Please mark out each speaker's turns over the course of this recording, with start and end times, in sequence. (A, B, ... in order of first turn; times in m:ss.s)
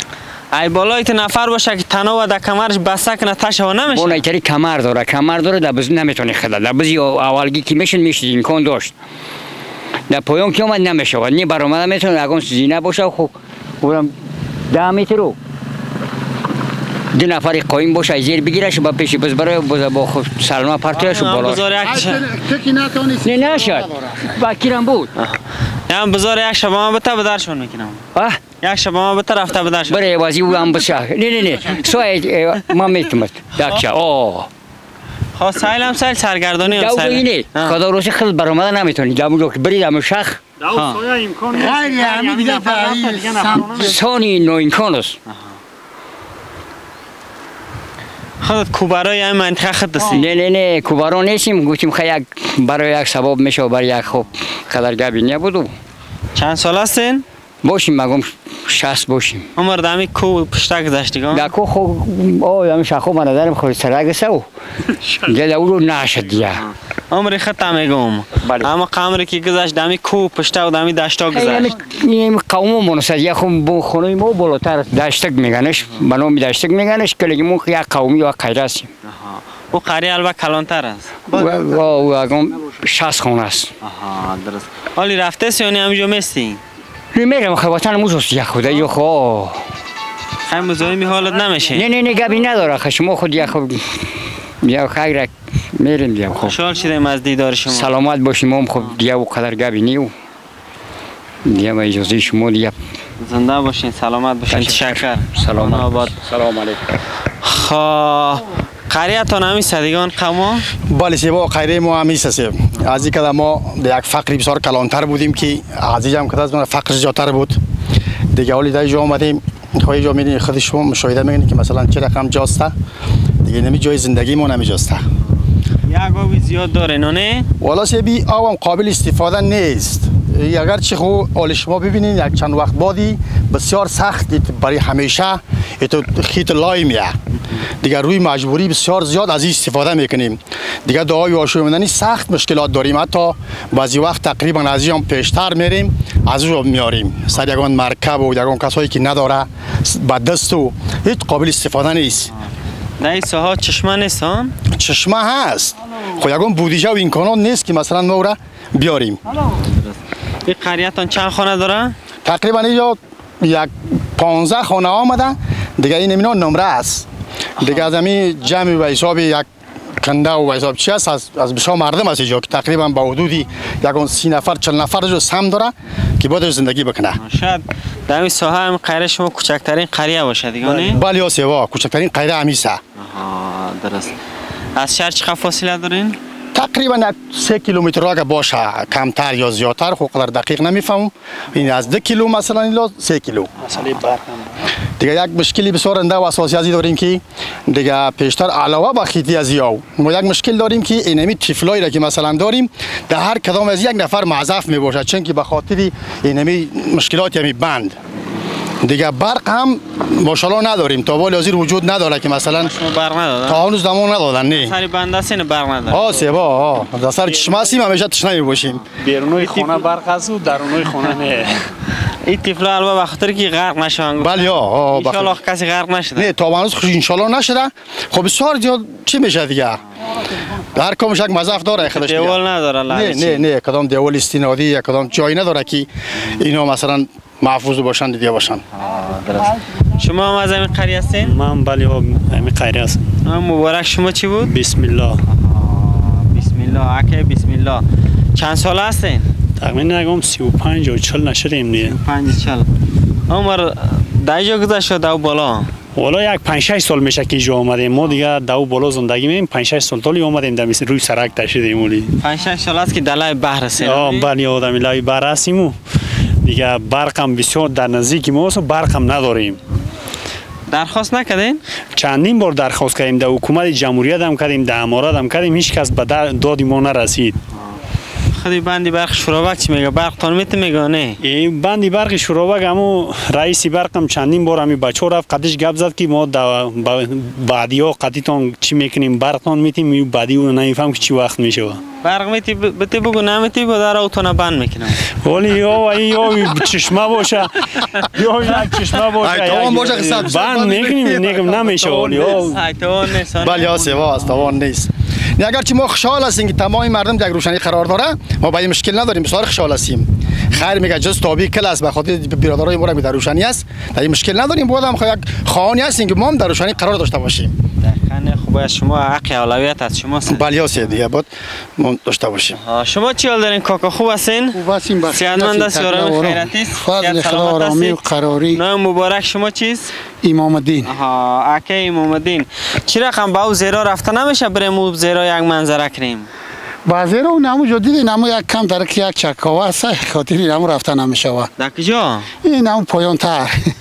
0:00.5-0:04.2 A
0:03.9-0:08.9 B
0:10.1-0:14.1 B
0:14.7-0:15.4 B
0:17.1-0:21.7 B
0:20.9-0:22.2 A
0:21.8-0:24.4 C
0:23.2-0:25.1 B
0:25.2-0:28.0 A
0:28.6-0:30.1 A
0:29.9-0:34.5 B
0:33.6-0:33.9 A
0:35.4-0:37.8 A
0:36.6-0:40.4 B
0:40.6-0:44.0 D
0:40.7-0:41.0 A
0:41.5-0:44.0 C
0:43.8-0:45.2 B
0:48.4-0:50.3 A
0:50.1-0:55.7 B
0:56.4-0:57.2 A
0:57.6-0:59.5 B
0:59.6-1:01.5 A
1:01.3-1:04.4 B
1:05.2-1:06.6 B
1:06.5-1:11.7 A
1:08.4-1:08.7 B
1:11.3-1:18.9 B
1:19.1-1:21.1 A
1:21.3-1:23.7 B
1:23.8-1:26.6 A
1:27.1-1:29.6 B
1:30.5-1:31.9 A
1:31.7-1:34.1 B
1:34.6-1:36.6 B
1:36.4-1:37.9 A
1:37.7-1:40.1 B
1:41.4-1:42.8 B
1:43.2-1:46.1 A
1:44.5-1:46.8 B
1:47.4-1:50.6 A
1:50.9-1:57.6 E
1:58.3-2:02.7 E
2:03.4-2:05.1 E
2:05.9-2:07.5 A
2:07.6-2:17.1 E
2:17.8-2:32.3 E
2:33.0-2:34.6 A
2:34.8-2:39.2 E
2:39.3-2:42.0 A
2:42.2-2:47.1 E
2:47.6-2:49.5 E
2:47.6-2:47.9 A
2:50.0-2:57.2 E
2:57.2-3:01.0 A
3:00.6-3:02.8 E
3:03.0-3:04.2 A
3:04.8-3:06.2 A
3:06.5-3:13.6 E
3:13.6-3:14.7 D
3:15.0-3:28.0 E
3:28.8-3:32.7 E
3:32.6-3:33.6 A
3:33.5-3:34.7 E
3:34.5-3:36.3 A
3:35.9-3:38.8 E
3:37.3-3:37.8 D
3:39.0-3:41.6 D
3:39.4-3:39.8 A
3:42.1-3:46.3 A
3:44.2-3:45.4 E
3:46.2-3:49.8 E
3:50.7-3:58.6 E
3:51.8-3:53.4 A
3:58.7-4:01.3 A
4:01.2-4:03.1 D
4:03.2-4:04.5 A
4:04.4-4:05.2 D
4:05.3-4:07.8 A
4:08.4-4:09.3 A
4:09.6-4:12.0 D
4:11.8-4:12.7 A
4:13.3-4:15.7 A
4:16.0-4:22.2 D
4:22.2-4:24.3 A
4:23.8-4:25.8 D
4:26.4-4:29.6 D
4:30.7-4:31.6 A
4:32.0-4:37.4 D
4:38.3-4:41.2 A
4:41.2-4:51.8 D
4:52.0-4:55.1 A
4:55.2-5:02.6 D
4:59.2-5:02.4 E
5:02.2-5:04.3 A
5:03.4-5:17.5 E
5:17.8-5:20.5 A
5:20.3-5:22.6 E
5:22.6-5:24.6 A
5:24.5-5:28.6 C
5:25.1-5:28.0 A
5:28.5-5:29.9 A
5:30.2-5:30.9 C
5:30.8-5:36.3 A
5:36.9-5:41.5 C
5:41.6-5:42.3 A
5:42.4-5:43.7 C